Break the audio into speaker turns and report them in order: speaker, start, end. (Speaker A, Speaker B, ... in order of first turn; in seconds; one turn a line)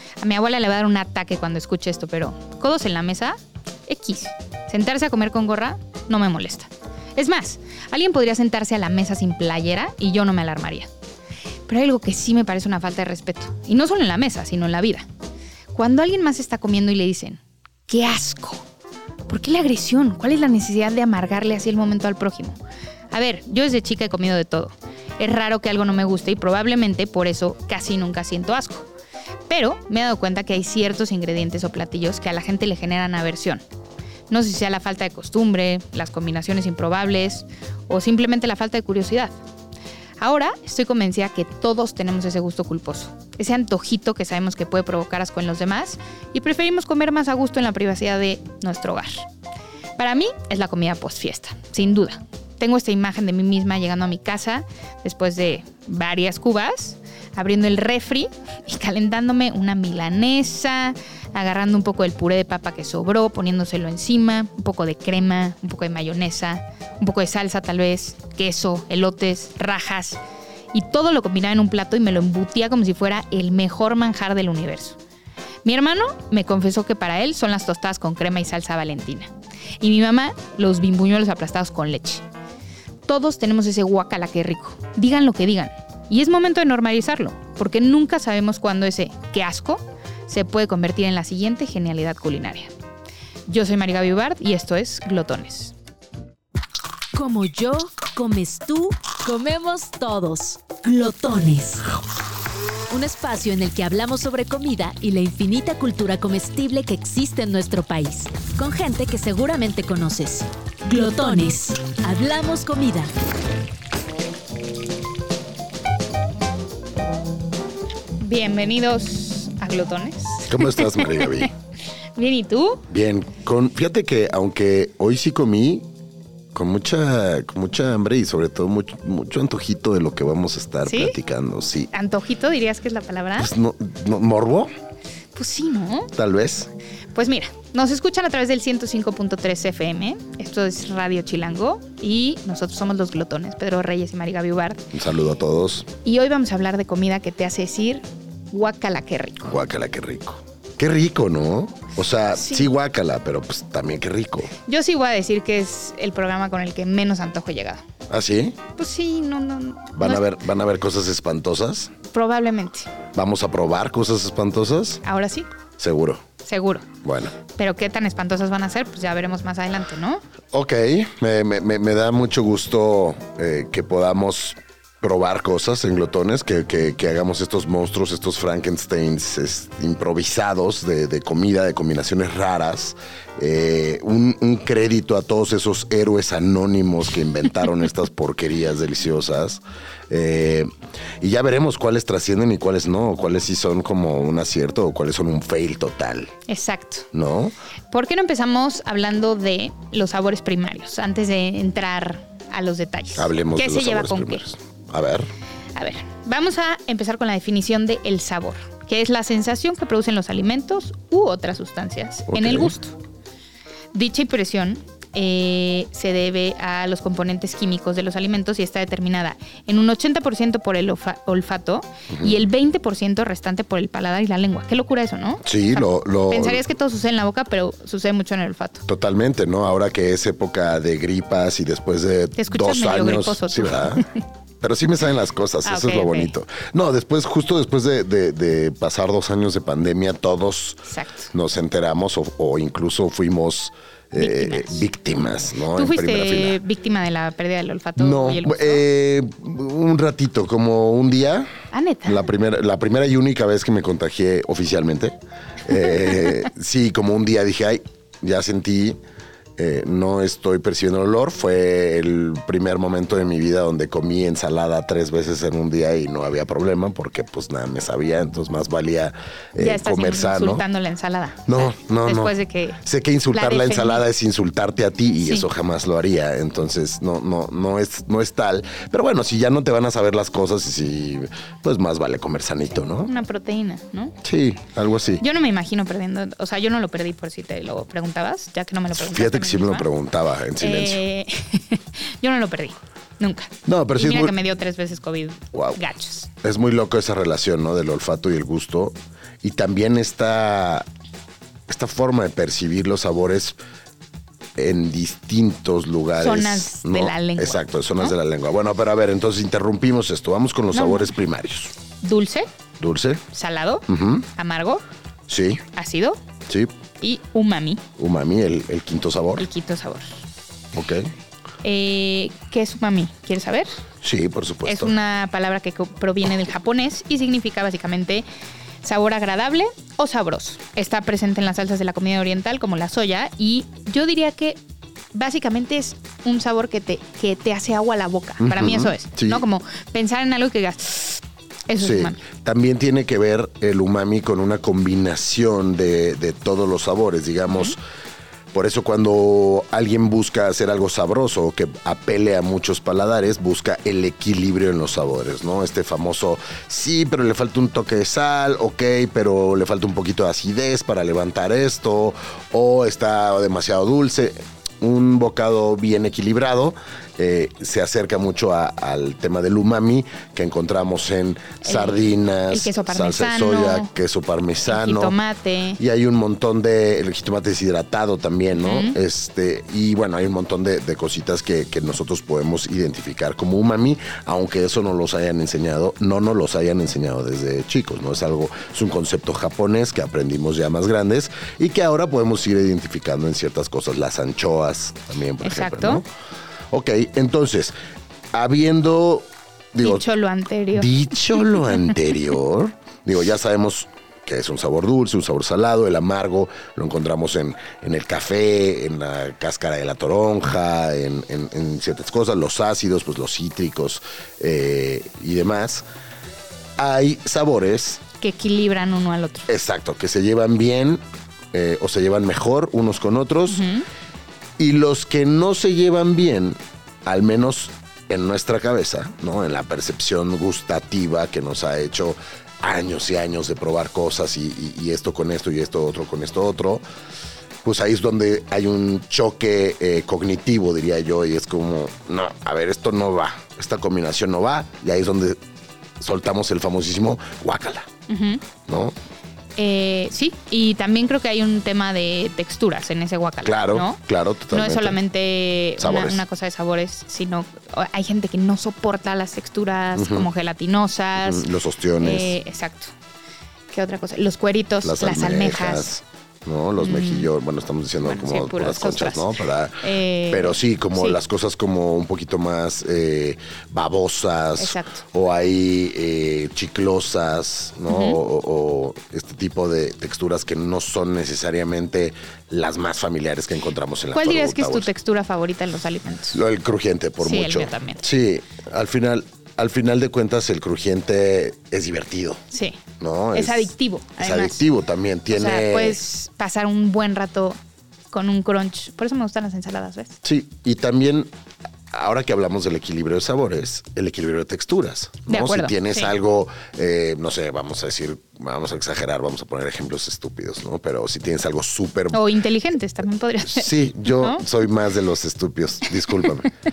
Speaker A: 0.2-10.9
Speaker A: 11.7-15.1
Speaker A: 15.7-18.7
Speaker A: 19.3-22.6
Speaker A: 23.1-28.9
Speaker A: 29.5-33.6
Speaker A: 34.3-39.4
Speaker A: 40.2-49.3
Speaker A: 50.0-70.2
Speaker A: 70.7-75.0
Speaker A: 75.7-82.2
Speaker A: 83.1-92.7
Speaker A: 93.5-95.8
Speaker B: 97.1-101.9
Speaker B: 102.9-113.1
Speaker A: 118.2-121.5
Speaker C: 120.5-121.5
Speaker A: 122.2-122.8
Speaker C: 122.9-125.8
Speaker C: 126.5-131.9
Speaker A: 130.8-131.2
Speaker A: 131.9-133.5
Speaker C: 133.4-134.7
Speaker A: 135.3-136.1
Speaker C: 136.1-136.7
Speaker A: 137.2-144.9
Speaker C: 144.9-145.9
Speaker A: 146.0-149.6
Speaker C: 149.4-154.5
Speaker A: 152.4-152.7
Speaker A: 154.7-157.8
Speaker C: 158.1-158.6
Speaker A: 158.8-160.3
Speaker C: 160.0-161.9
Speaker A: 162.1-162.9
Speaker C: 163.1-165.0
Speaker A: 165.0-165.5
Speaker C: 165.8-166.2
Speaker A: 166.4-166.9
Speaker C: 167.0-167.3
Speaker A: 167.4-170.2
Speaker C: 170.5-190.7
Speaker C: 191.2-196.3
Speaker A: 196.5-197.1
Speaker C: 197.1-197.5
Speaker A: 197.9-204.4
Speaker C: 203.2-205.3
Speaker A: 205.8-212.9
Speaker C: 212.3-212.8
Speaker A: 213.9-228.9
Speaker C: 222.1-222.5
Speaker C: 225.4-226.6
Speaker C: 228.9-234.1
Speaker A: 232.4-234.1
Speaker C: 234.6-246.6
Speaker A: 235.6-236.3
Speaker A: 240.9-241.3
Speaker A: 244.2-244.9
Speaker A: 245.7-248.8
Speaker C: 248.0-251.5
Speaker A: 251.7-252.3
Speaker C: 252.1-259.0
Speaker C: 259.6-270.6
Speaker A: 269.6-274.0
Speaker C: 271.5-283.1
Speaker A: 275.2-275.5
Speaker A: 283.1-284.2
Speaker C: 284.2-285.2
Speaker A: 285.2-289.9
Speaker C: 288.9-291.0
Speaker A: 290.6-296.3
Speaker C: 293.7-294.4
Speaker C: 295.5-295.8
Speaker C: 296.4-300.9
Speaker C: 301.7-303.6
Speaker C: 304.6-311.7
Speaker A: 306.2-308.1
Speaker A: 310.7-311.1
Speaker A: 312.0-312.5
Speaker C: 312.8-313.2
Speaker A: 313.3-314.8
Speaker C: 313.9-314.3
Speaker C: 315.3-315.6
Speaker A: 315.7-316.2
Speaker C: 316.5-316.7
Speaker A: 317.0-317.9
Speaker C: 318.0-319.5
Speaker A: 319.4-320.2
Speaker C: 320.7-321.1
Speaker A: 321.6-323.7
Speaker C: 324.0-324.9
Speaker A: 324.6-328.2
Speaker A: 328.8-334.6
Speaker A: 335.1-342.2
Speaker C: 338.4-339.4
Speaker C: 341.8-347.8
Speaker C: 348.5-375.2
Speaker A: 371.6-373.9
Speaker A: 374.7-375.8
Speaker C: 375.8-396.1
Speaker A: 378.6-379.0
Speaker A: 395.4-396.0
Speaker C: 396.7-397.7
Speaker C: 398.3-400.1
Speaker A: 399.8-400.9
Speaker C: 400.7-415.8
Speaker C: 416.8-418.0
Speaker A: 418.2-419.5
Speaker C: 419.5-421.0
Speaker C: 421.5-423.6
Speaker A: 423.5-423.9
Speaker C: 424.6-436.8
Speaker C: 437.6-445.4
Speaker C: 446.0-447.9
Speaker A: 448.1-448.4
Speaker C: 448.6-449.0
Speaker A: 449.6-454.0
Speaker C: 453.4-455.0
Speaker A: 454.5-461.5
Speaker C: 455.8-456.2
Speaker C: 459.9-460.3
Speaker C: 461.2-462.4
Speaker A: 462.0-462.9
Speaker A: 463.7-465.9
Speaker C: 464.8-484.9
Speaker A: 466.8-467.3
Speaker A: 468.0-469.3
Speaker A: 469.8-471.2
Speaker A: 474.6-475.0
Speaker A: 477.9-478.2
Speaker A: 484.1-486.4
Speaker C: 486.3-492.4
Speaker A: 487.2-488.0
Speaker A: 492.5-492.8
Speaker C: 493.0-496.0
Speaker A: 493.3-494.6
Speaker A: 495.3-497.6
Speaker A: 498.1-500.2
Speaker C: 500.2-501.3
Speaker C: 501.9-512.2
Speaker A: 505.3-506.1
Speaker A: 512.1-514.5
Speaker C: 513.5-516.5